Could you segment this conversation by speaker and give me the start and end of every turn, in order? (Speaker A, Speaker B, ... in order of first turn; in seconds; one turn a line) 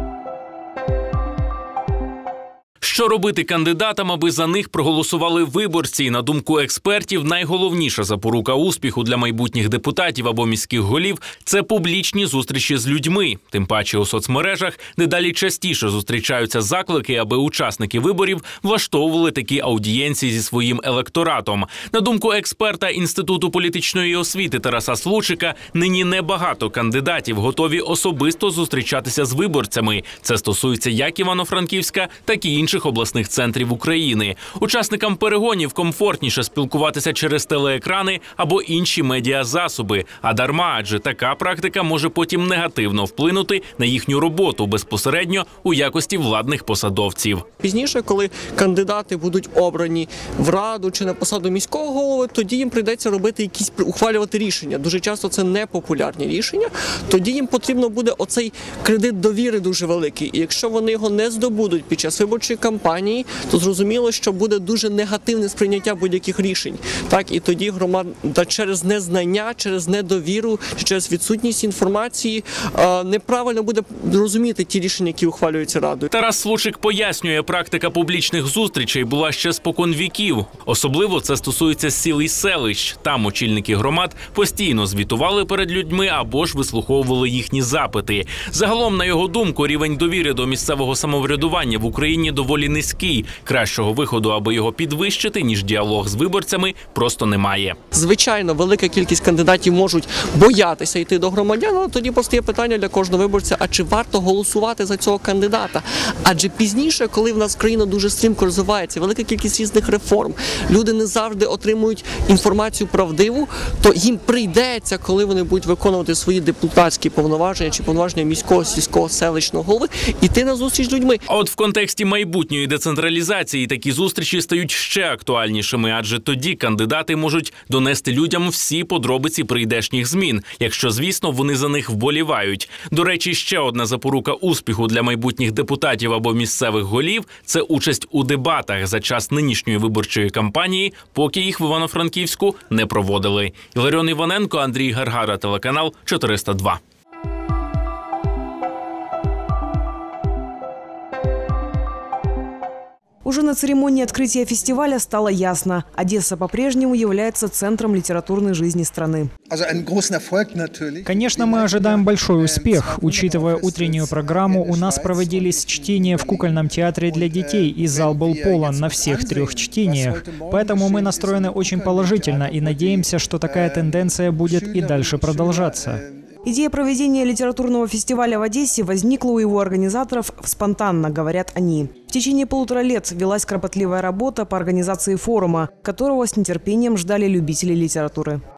Speaker A: 2.8-47.5
Speaker B: 47.6-76.1
Speaker A: 76.1-97.8
Speaker B: 97.9-121.2
Speaker A: 121.3-146.8
Speaker C: 153.2-159.3
Speaker D: 161.0-176.0
Speaker C: 176.4-188.4